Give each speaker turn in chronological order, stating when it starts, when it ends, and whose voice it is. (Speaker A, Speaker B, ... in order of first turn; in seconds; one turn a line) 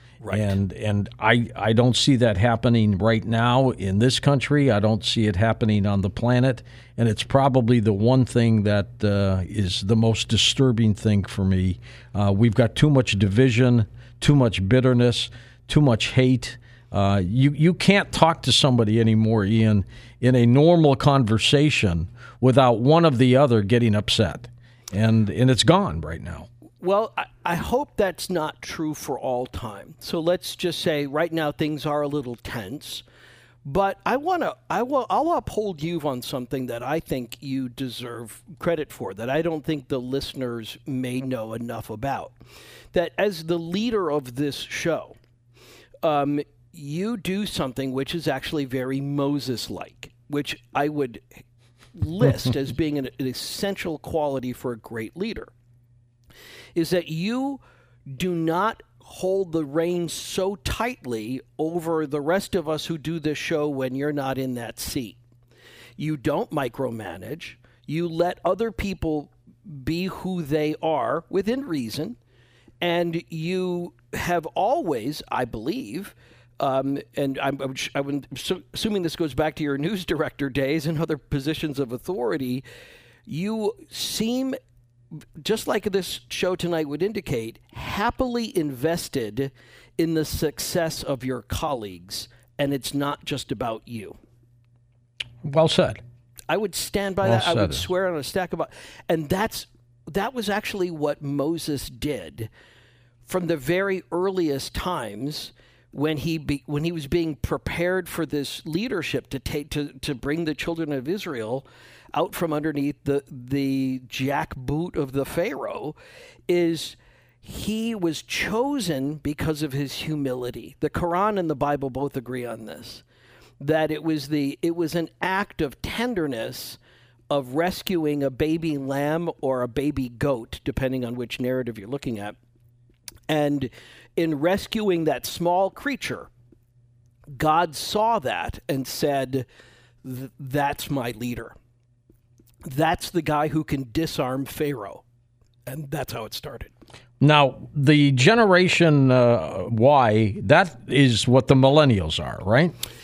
Speaker A: 0.2-0.6
Speaker B: 0.3-26.5
Speaker A: 26.8-33.0
Speaker A: 33.6-42.3
Speaker A: 42.9-45.1
Speaker A: 46.0-51.4
Speaker A: 51.9-55.5
Speaker A: 56.7-65.2
Speaker A: 66.0-72.2
Speaker A: 72.8-82.6
Speaker A: 83.3-84.5
Speaker A: 85.4-94.2
Speaker B: 95.4-96.0
Speaker A: 96.5-102.5
Speaker B: 97.2-97.8
Speaker A: 103.2-116.0
Speaker A: 116.5-123.0
Speaker A: 123.6-126.8
Speaker A: 127.3-132.3
Speaker A: 133.3-136.3
Speaker A: 137.4-139.4
Speaker A: 140.0-141.5
Speaker A: 142.7-145.0
Speaker A: 145.7-146.7
Speaker B: 147.2-152.7